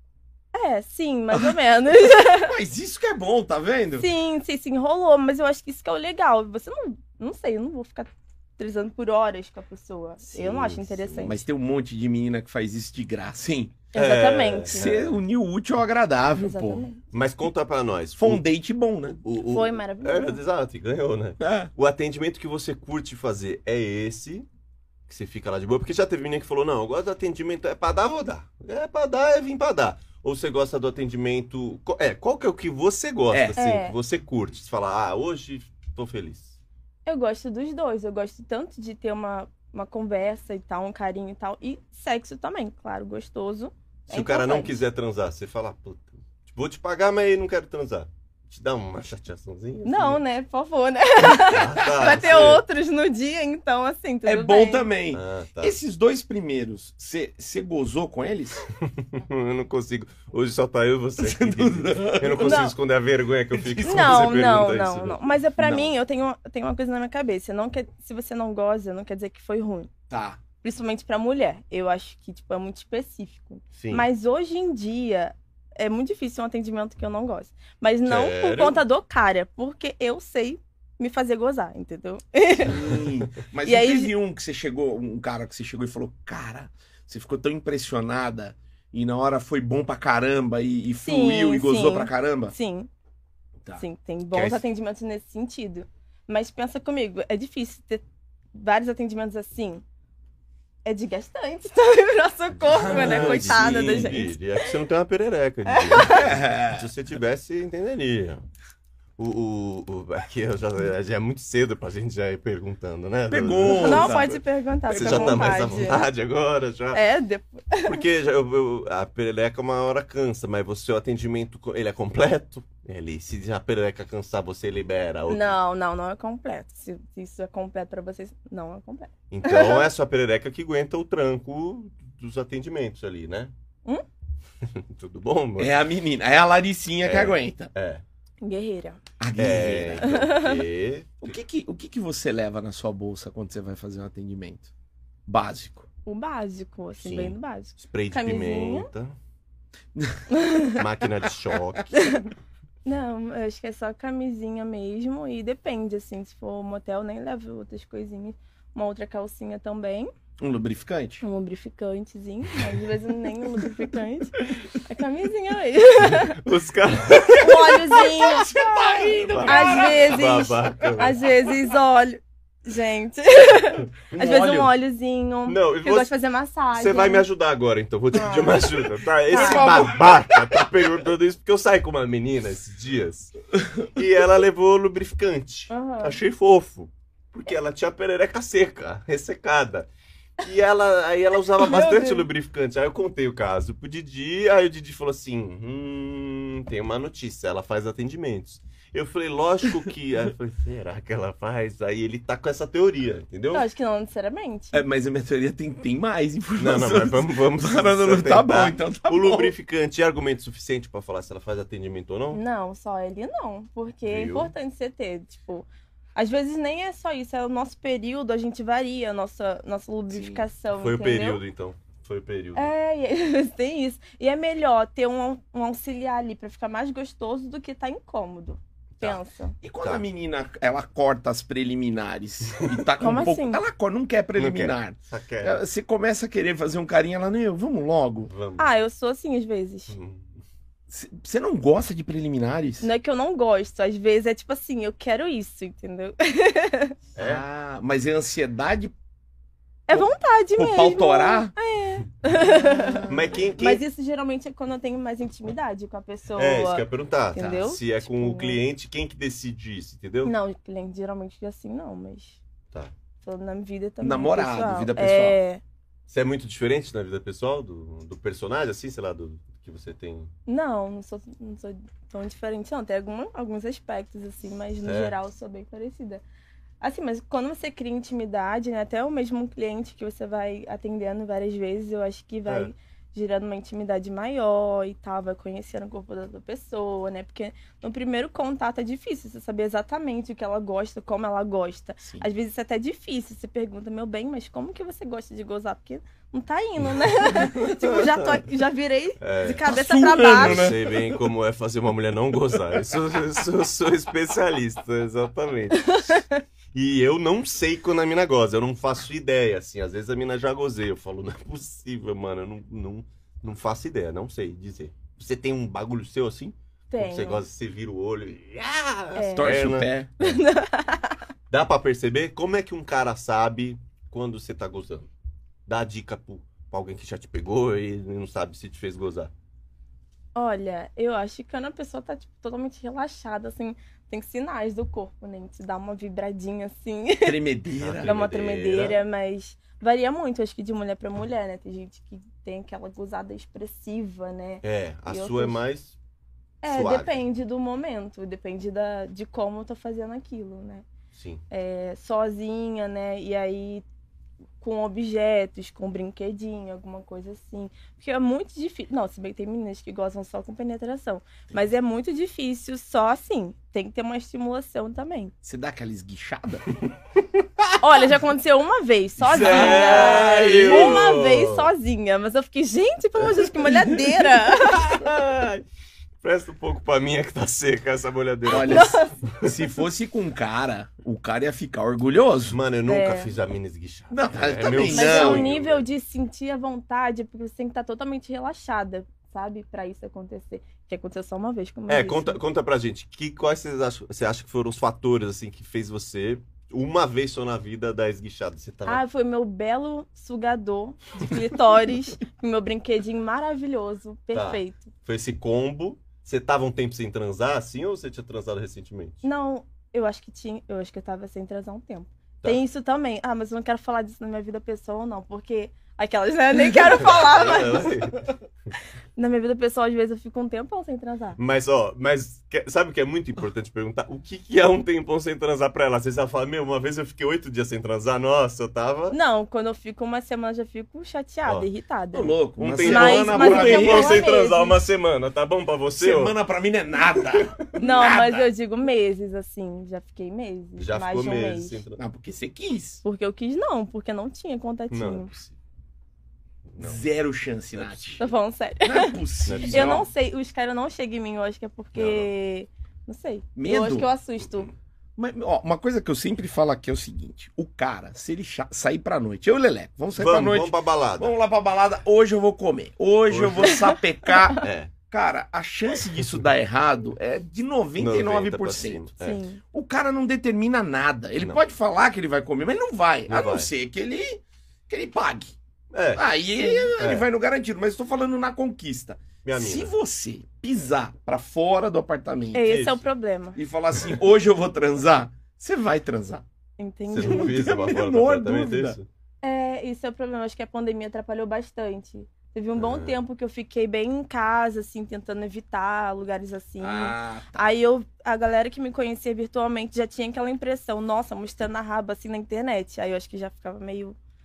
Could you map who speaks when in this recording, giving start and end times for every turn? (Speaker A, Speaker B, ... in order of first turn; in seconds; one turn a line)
Speaker A: 0.5-2.6
Speaker B: 2.2-4.1
Speaker A: 4.0-11.4
Speaker C: 10.2-11.3
Speaker B: 11.2-13.8
Speaker A: 13.9-14.9
Speaker C: 13.9-15.2
Speaker B: 14.7-16.9
Speaker A: 16.4-17.0
Speaker C: 17.1-18.4
Speaker B: 18.2-19.2
Speaker C: 19.2-24.5
Speaker A: 19.5-20.4
Speaker B: 21.4-21.7
Speaker C: 25.1-36.6
Speaker B: 33.3-33.6
Speaker A: 33.6-34.0
Speaker A: 37.1-44.8
Speaker C: 44.1-50.2
Speaker A: 49.9-54.9
Speaker C: 51.2-52.6
Speaker B: 54.2-58.7
Speaker C: 55.1-55.8
Speaker C: 58.8-65.2
Speaker B: 61.2-62.6
Speaker A: 62.4-62.7
Speaker B: 63.6-64.3
Speaker A: 63.8-69.9
Speaker B: 65.6-65.9
Speaker B: 70.1-70.4
Speaker A: 70.6-83.0
Speaker C: 73.8-74.1
Speaker C: 78.1-78.8
Speaker B: 82.6-92.5
Speaker A: 83.6-84.1
Speaker A: 91.0-92.9
Speaker B: 93.7-94.6
Speaker A: 93.8-98.0
Speaker A: 98.5-99.8
Speaker A: 100.8-104.8
Speaker C: 102.7-108.4
Speaker B: 102.8-104.2
Speaker A: 105.7-106.3
Speaker B: 106.1-106.9
Speaker C: 109.2-114.4
Speaker B: 113.3-116.0
Speaker A: 113.7-116.1
Speaker C: 114.9-117.0
Speaker A: 116.9-118.0
Speaker C: 117.8-125.5
Speaker A: 125.3-129.9
Speaker C: 129.3-133.5
Speaker C: 134.6-135.8
Speaker B: 135.6-137.7
Speaker C: 137.0-138.0
Speaker A: 138.4-139.0
Speaker B: 139.2-140.1
Speaker C: 139.4-141.4
Speaker A: 140.0-140.6
Speaker B: 141.2-144.7
Speaker B: 145.3-145.9
Speaker A: 146.1-148.9
Speaker C: 147.0-149.2
Speaker B: 149.9-150.2
Speaker A: 150.3-150.8
Speaker C: 150.8-152.0
Speaker A: 151.9-152.3
Speaker A: 152.8-160.1
Speaker B: 160.4-161.2
Speaker A: 161.2-166.4
Speaker C: 166.0-168.1
Speaker A: 167.3-168.5
Speaker B: 168.0-171.0
Speaker C: 169.0-171.2
Speaker A: 169.4-177.3
Speaker B: 174.2-174.7
Speaker C: 175.5-176.1
Speaker C: 176.7-183.3
Speaker A: 178.2-178.8
Speaker A: 179.3-180.2
Speaker B: 179.3-180.3
Speaker C: 183.9-189.9
Speaker A: 185.7-186.2
Speaker C: 190.4-203.7
Speaker A: 191.6-192.3
Speaker A: 203.5-204.8
Speaker B: 204.7-209.5
Speaker C: 206.6-212.4
Speaker A: 212.3-221.4
Speaker C: 214.1-214.5
Speaker B: 220.1-220.5
Speaker C: 220.8-222.7
Speaker A: 222.6-229.6
Speaker B: 229.0-238.3
Speaker A: 233.0-233.6
Speaker C: 234.4-235.6
Speaker C: 238.3-238.7
Speaker A: 238.6-239.9
Speaker C: 239.9-240.3
Speaker B: 240.9-242.9
Speaker A: 242.8-247.0
Speaker C: 247.2-247.4
Speaker B: 247.2-248.9
Speaker A: 249.9-253.1
Speaker B: 249.9-251.5
Speaker B: 252.3-253.5
Speaker C: 253.1-253.8
Speaker A: 253.6-256.8
Speaker C: 256.4-260.3
Speaker A: 257.4-258.6
Speaker A: 260.2-262.4
Speaker A: 263.2-265.6
Speaker B: 264.0-265.4
Speaker C: 266.1-270.3
Speaker A: 270.5-276.2
Speaker C: 274.8-275.1
Speaker A: 276.8-300.7
Speaker C: 297.4-298.4
Speaker C: 299.2-299.6
Speaker B: 299.6-301.2
Speaker C: 300.3-306.2
Speaker A: 305.8-306.4
Speaker C: 306.7-320.4
Speaker A: 316.9-317.4
Speaker A: 319.2-321.2
Speaker B: 319.4-320.1
Speaker C: 321.5-325.1
Speaker C: 325.7-329.3
Speaker A: 330.4-337.4
Speaker B: 337.2-338.2
Speaker C: 337.8-339.0
Speaker A: 338.0-345.6
Speaker C: 344.6-345.9
Speaker A: 346.6-350.9
Speaker C: 346.7-347.2
Speaker C: 351.1-351.4
Speaker A: 351.5-353.9
Speaker A: 354.6-365.3
Speaker B: 365.4-366.7
Speaker A: 367.8-375.1
Speaker B: 369.2-371.1
Speaker C: 369.3-371.7
Speaker C: 374.7-375.6
Speaker C: 376.2-379.5
Speaker B: 378.5-382.6
Speaker A: 378.5-379.1
Speaker C: 382.5-385.9
Speaker A: 382.9-383.3
Speaker B: 384.1-385.5
Speaker A: 384.7-392.4
Speaker C: 391.9-399.0
Speaker A: 398.9-404.9
Speaker C: 404.3-409.2
Speaker A: 409.2-418.0
Speaker C: 416.9-418.3
Speaker A: 419.2-421.4
Speaker C: 421.4-429.2
Speaker A: 429.1-434.8
Speaker B: 432.1-434.2
Speaker C: 432.6-436.3
Speaker B: 436.0-438.5
Speaker A: 437.8-441.8
Speaker C: 440.8-442.0
Speaker B: 442.0-443.0
Speaker A: 443.0-445.3
Speaker C: 444.9-445.5
Speaker C: 446.7-447.0
Speaker B: 446.8-448.3
Speaker C: 447.8-448.2
Speaker A: 448.2-454.7
Speaker B: 448.8-450.1
Speaker C: 449.5-450.1
Speaker C: 451.9-452.3
Speaker B: 453.6-454.1
Speaker B: 455.2-469.1
Speaker C: 460.1-461.3
Speaker C: 463.3-463.8
Speaker A: 463.7-464.4
Speaker C: 464.6-464.9
Speaker C: 465.9-466.5
Speaker C: 468.0-469.4
Speaker A: 469.2-469.6
Speaker B: 469.7-475.5
Speaker C: 473.3-473.7
Speaker C: 475.9-476.2
Speaker B: 476.1-482.8
Speaker C: 477.0-477.3
Speaker C: 479.4-479.9
Speaker A: 482.5-483.6
Speaker C: 482.6-483.0
Speaker B: 483.6-486.4
Speaker A: 486.8-487.6
Speaker C: 487.1-489.1
Speaker B: 487.2-489.0
Speaker A: 489.4-504.2
Speaker C: 492.8-493.2
Speaker B: 496.8-497.7